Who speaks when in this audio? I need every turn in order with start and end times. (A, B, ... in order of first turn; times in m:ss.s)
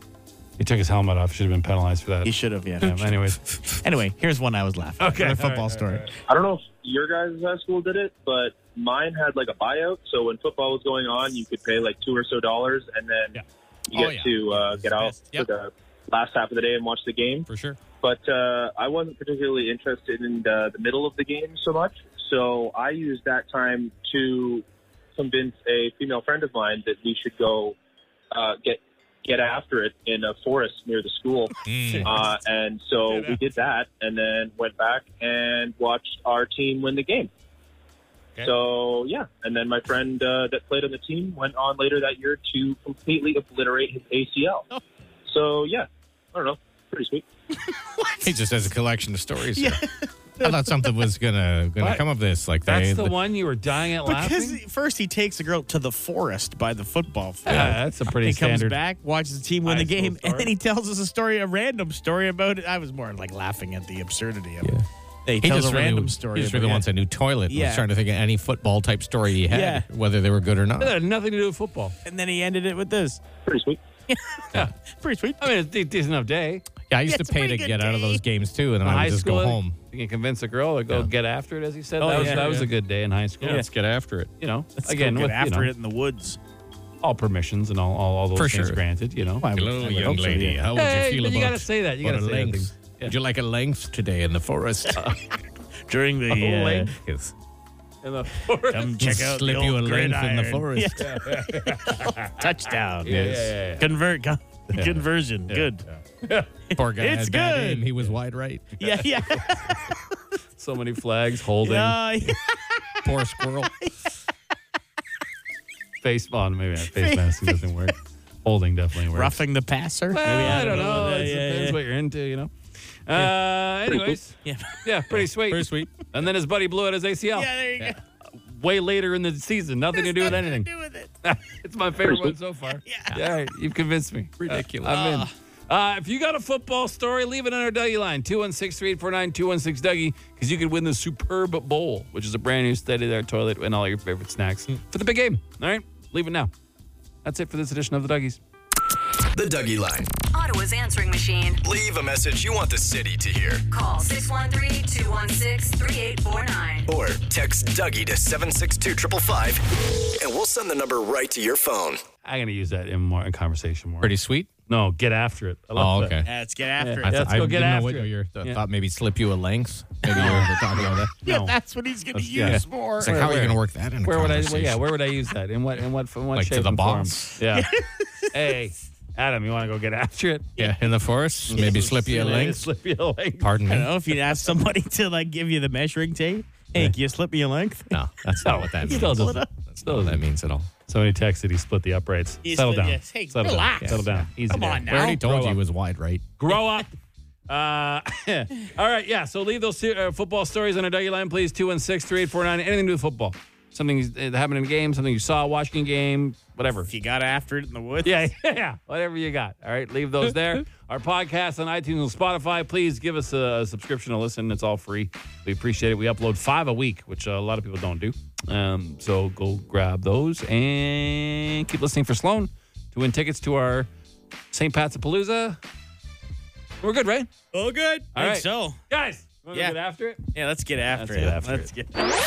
0:00.6-0:03.4 A
0:02.2-0:03.2 B
0:03.8-0:06.1 B
0:05.0-0:06.1 A
0:06.3-0:17.5 C
0:13.9-0:15.5 D
0:17.5-0:17.8 D
0:18.0-0:24.6 C
0:25.2-0:27.8 C
0:28.3-0:37.3 C
0:31.6-0:32.1 D
0:33.1-0:33.4 A
0:38.4-0:44.7 C
0:45.3-0:47.2 C
0:47.7-0:48.4 B
0:48.2-0:49.8 D
0:49.5-0:50.9 B
0:50.4-0:53.1 D
0:52.6-0:54.6 A
0:54.0-1:04.7 B
0:57.4-0:58.8 A
0:59.6-1:00.5 A
1:05.2-1:06.9 B
1:05.4-1:11.0 D
1:07.5-1:07.8 B
1:09.5-1:09.9 B
1:10.8-1:11.9 A
1:12.0-1:13.2 B
1:13.4-1:13.8 C
1:14.1-1:15.5 B
1:15.4-1:16.6 A
1:16.9-1:19.8 D
1:17.0-1:18.2 B
1:18.8-1:23.6 A
1:22.0-1:22.7 D
1:22.0-1:22.6 B
1:23.4-1:24.3 D
1:24.4-1:25.7 A
1:24.8-1:26.4 B
1:27.0-1:29.4 A
1:28.3-1:28.8 D
1:29.4-1:30.6 B
1:29.4-1:35.0 D
1:30.7-1:33.1 A
1:35.8-1:36.9 B
1:36.3-1:36.9 A
1:36.9-1:37.3 D
1:38.0-1:39.0 A
1:38.7-1:45.8 B
1:39.0-1:41.0 D
1:41.0-1:42.4 A
1:43.0-1:43.9 A
1:43.1-1:43.5 D
1:45.5-1:46.5 A
1:46.7-1:47.9 B
1:46.7-1:48.6 D
1:48.8-1:49.8 A
1:48.8-1:50.1 B
1:50.6-1:52.3 A
1:51.6-1:53.1 B
1:53.0-1:53.7 D
1:56.0-1:59.4 A
1:56.9-1:57.6 B
1:59.1-2:01.8 B
2:00.1-2:02.5 A
2:00.4-2:01.0 D
2:03.0-2:07.9 A
2:04.1-2:04.8 B
2:05.5-2:05.9 D
2:07.3-2:08.0 B
2:08.5-2:10.7 A
2:09.9-2:11.1 B
2:11.2-2:26.5 A
2:12.0-2:12.3 B
2:12.8-2:13.2 B
2:14.4-2:15.1 D
2:14.8-2:15.3 B
2:27.2-2:28.4 A
2:29.3-2:30.1 E
2:30.3-2:31.6 F
2:31.6-2:33.6 E
2:33.7-2:36.9 F
2:36.9-2:42.0 E
2:42.2-2:44.1 A
2:44.0-2:44.5 D
2:44.7-2:46.2 A
2:45.8-2:46.3 D
2:46.2-2:47.1 B
2:46.8-2:48.6 A
2:47.0-2:51.1 D
2:50.1-2:51.5 A
2:50.1-2:50.5 B
2:51.2-2:53.3 B
2:52.1-2:57.7 A
2:52.5-2:54.8 D
2:56.3-2:57.4 D
2:57.5-2:58.3 B
2:58.3-3:00.5 A
3:00.6-3:02.6 D
3:01.5-3:03.5 A
3:03.4-3:03.9 D
3:03.7-3:08.0 B
3:07.9-3:10.7 D
3:08.4-3:10.2 A
3:08.8-3:09.5 B
3:10.9-3:15.6 A
3:12.4-3:15.2 B
3:13.8-3:14.3 D
3:14.9-3:16.2 D
3:16.4-3:16.9 A
3:17.5-3:26.9 A
3:26.8-3:28.3 B
3:28.0-3:43.9 A
3:44.5-3:45.6 A
3:46.8-3:47.3 A
3:47.5-3:48.8 B
3:48.1-3:50.2 A
3:49.5-3:49.8 B
3:50.3-3:52.1 B
3:50.9-3:51.7 A